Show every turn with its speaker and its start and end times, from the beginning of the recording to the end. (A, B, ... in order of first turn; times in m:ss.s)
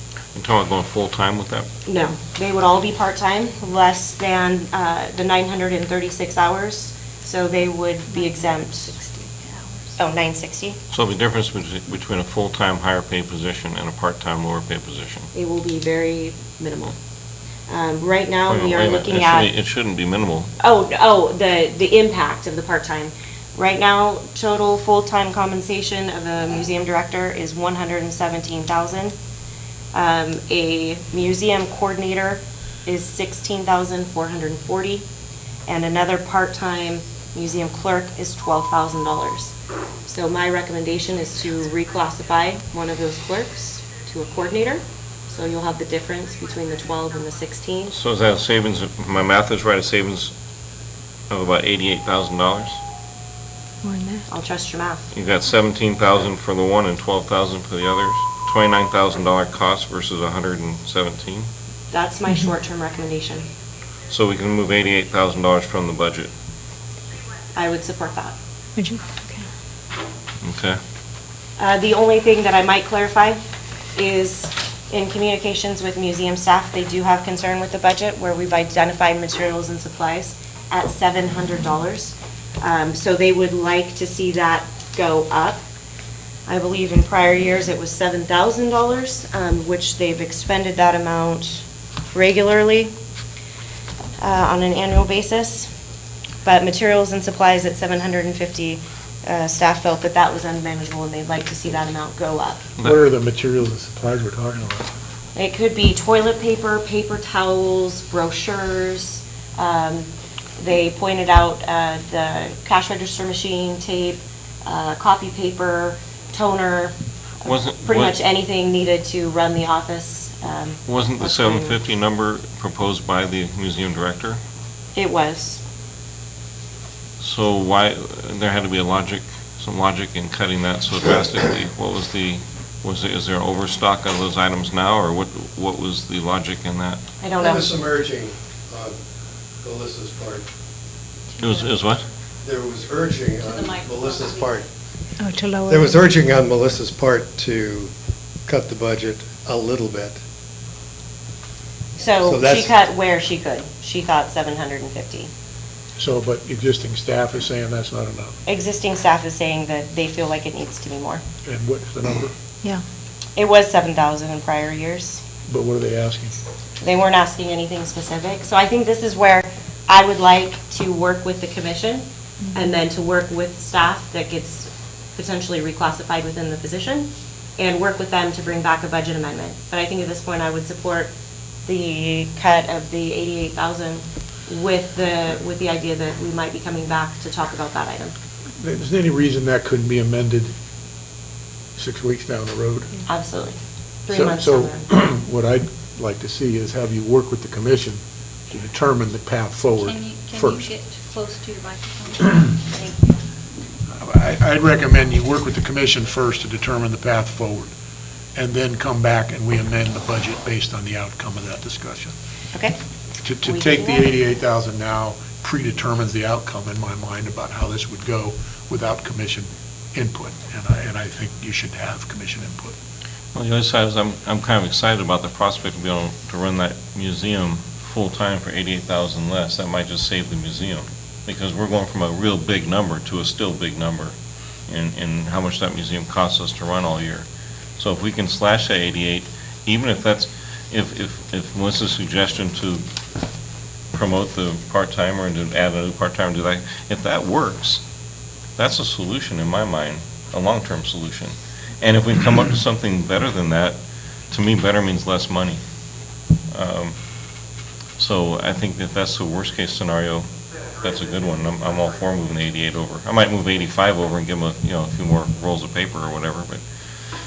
0:00.3-0:01.7 A
0:01.8-0:08.9 B
0:08.2-0:09.9 C
0:10.0-0:10.8 B
0:10.9-0:15.3 A
0:15.3-0:17.0 B
0:17.7-0:19.5 B
0:18.5-0:20.5 A
0:20.6-0:29.1 B
0:29.9-0:35.0 B
0:35.7-0:39.5 B
0:40.1-0:47.9 B
0:47.9-0:50.3 A
0:51.3-0:52.8 A
0:53.8-0:54.2 C
0:54.3-0:55.0 B
0:55.1-1:01.5 A
1:01.9-1:03.5 B
1:04.1-1:06.3 A
1:07.5-1:08.3 B
1:08.8-1:09.4 C
1:10.4-1:10.8 A
1:11.6-1:13.4 B
1:14.0-1:25.6 B
1:26.5-1:32.9 B
1:34.2-1:35.7 B
1:36.4-1:42.6 B
1:42.8-1:44.9 D
1:45.3-2:01.8 B
1:57.4-1:58.2 A
2:00.9-2:04.4 A
2:04.9-2:05.6 B
2:07.2-2:17.0 A
2:17.2-2:17.8 B
2:17.4-2:19.0 E
2:19.6-2:20.4 E
2:21.4-2:22.0 A
2:22.4-2:24.7 E
2:23.4-2:24.7 F
2:25.2-2:26.0 C
2:25.6-2:27.9 E
2:28.4-2:30.2 E
2:32.0-2:35.3 B
2:32.2-2:32.7 E
2:36.0-2:38.3 D
2:38.4-2:41.2 B
2:41.4-2:42.3 D
2:43.4-2:45.2 B
2:45.5-2:46.4 D
2:46.8-3:01.1 B
3:01.6-3:08.1 B
3:08.6-3:10.5 D
3:11.8-3:12.9 D
3:13.0-3:14.9 B
3:14.1-3:20.7 D
3:19.8-3:23.2 F
3:23.9-3:27.7 D
3:28.3-3:32.1 D
3:32.5-3:32.8 B
3:33.2-3:42.7 D
3:33.4-3:34.1 B
3:43.3-3:54.1 A
3:54.7-3:57.2 A
3:57.8-4:02.8 A
4:03.9-4:07.8 A
4:08.6-4:13.8 A
4:14.3-4:15.6 A
4:16.5-4:16.9 A
4:18.0-4:26.6 A